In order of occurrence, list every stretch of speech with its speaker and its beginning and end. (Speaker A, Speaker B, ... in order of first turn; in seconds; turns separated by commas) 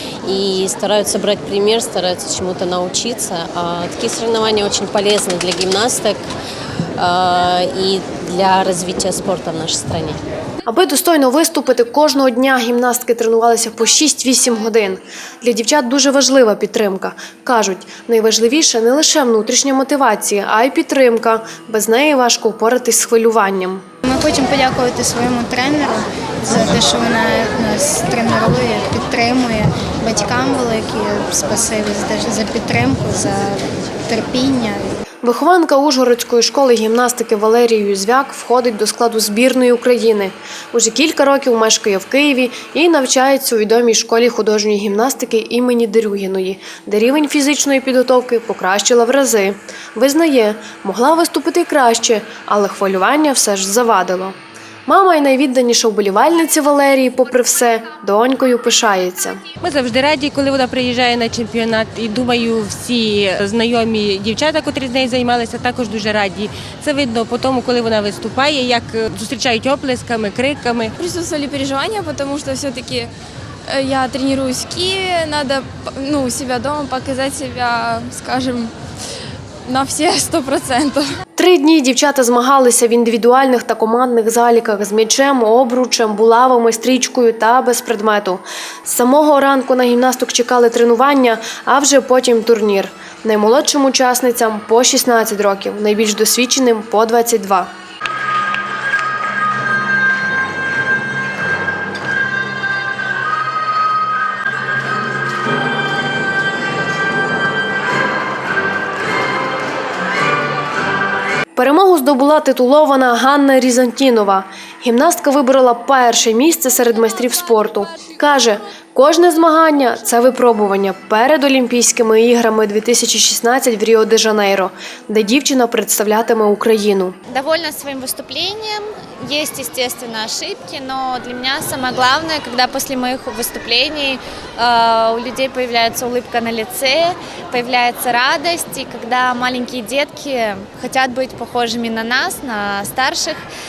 Speaker A: 0.2-6.3, Speaker A: 7.0-10.2, Speaker B: 10.7-23.9, Speaker C: 24.0-35.0, Speaker B: 35.2-59.4, Speaker D: 59.6-70.9, Speaker E: 71.0-73.1, Speaker E: 73.7-78.7, Speaker E: 79.7-81.2, Speaker B: 81.4-97.7, Speaker B: 111.5-127.2, Speaker F: 127.3-143.4